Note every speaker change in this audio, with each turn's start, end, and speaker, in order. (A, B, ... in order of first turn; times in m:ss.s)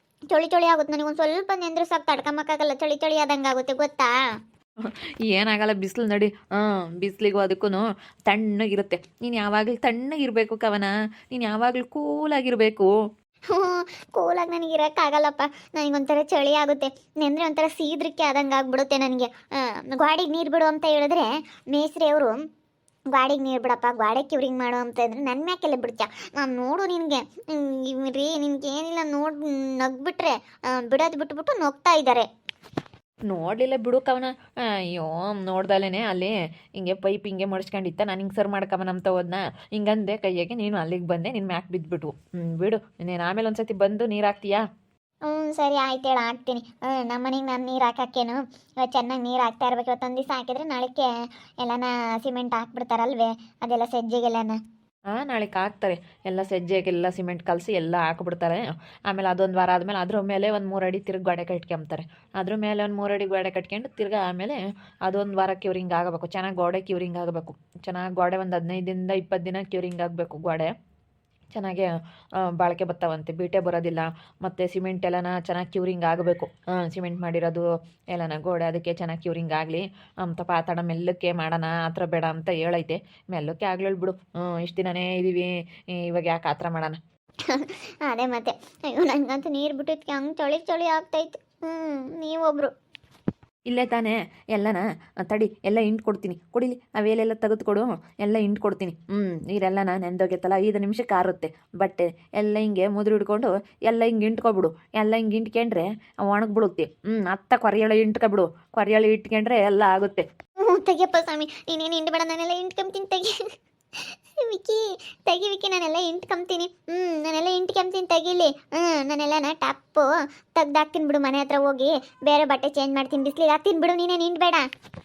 0:00.3-0:04.1 A
0:04.8-0:12.9 B
0:13.5-0:22.4 A
0:23.1-0:32.3 A
0:33.3-0:44.6 B
0:45.2-0:51.1 A
0:51.6-0:54.6 A
0:55.1-1:10.7 B
1:11.5-1:27.0 B
1:27.5-1:32.7 A
1:33.7-1:50.2 B
1:50.6-1:53.4 A
1:54.4-2:04.7 A